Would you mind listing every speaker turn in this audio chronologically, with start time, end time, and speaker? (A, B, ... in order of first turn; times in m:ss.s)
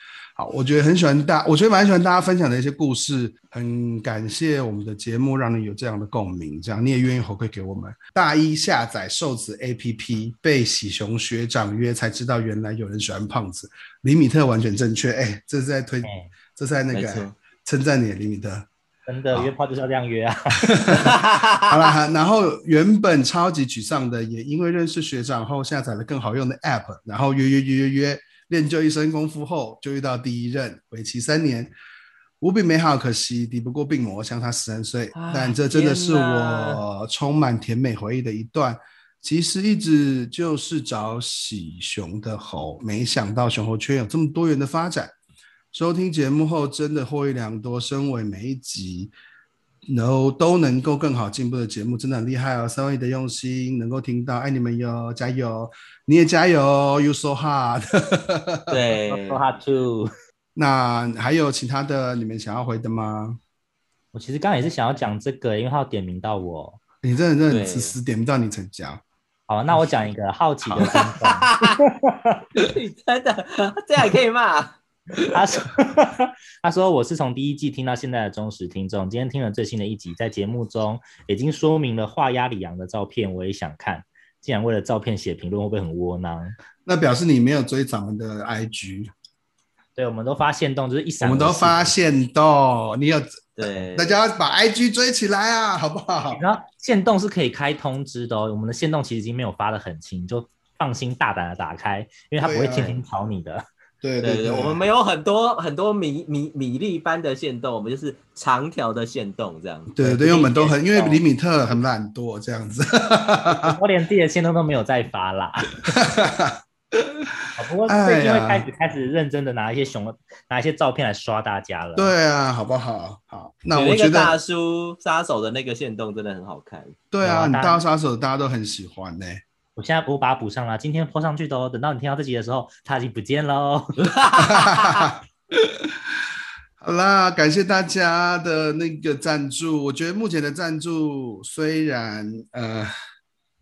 0:00.4-0:18.7 A
0:16.0-0:16.3 B
0:16.9-0:17.4 C
0:19.1-0:21.2 B
0:20.8-0:31.7 A
0:21.1-0:21.6 C
0:32.4-0:45.1 A
0:35.1-0:36.8 C
0:45.7-0:49.1 A
0:49.9-0:58.6 A
0:58.7-0:59.4 C
0:59.1-1:00.1 B
1:00.5-1:03.4 A
1:04.1-1:06.8 B
1:07.0-1:09.0 A
1:07.5-1:08.0 C
1:09.5-1:12.4 B
1:10.8-1:11.8 C
1:12.6-1:15.4 C
1:15.3-1:26.6 B
1:26.8-1:29.1 A
1:30.0-1:31.9 B
1:31.2-1:36.4 A
1:33.6-1:34.2 C
1:36.3-1:43.6 B
1:42.4-1:43.0 A
1:44.0-1:44.8 A
1:44.2-1:49.9 C
1:49.9-1:53.7 A
1:50.0-1:51.2 B
1:53.5-1:55.8 B
1:55.9-1:57.1 A
1:57.6-2:02.1 B
1:57.9-1:58.7 A
2:02.0-2:04.4 A
2:03.7-2:07.0 C
2:07.1-2:09.4 A
2:07.2-2:07.8 B
2:09.8-2:14.0 B
2:14.0-2:15.1 C
2:14.4-2:15.8 A
2:16.8-2:22.9 A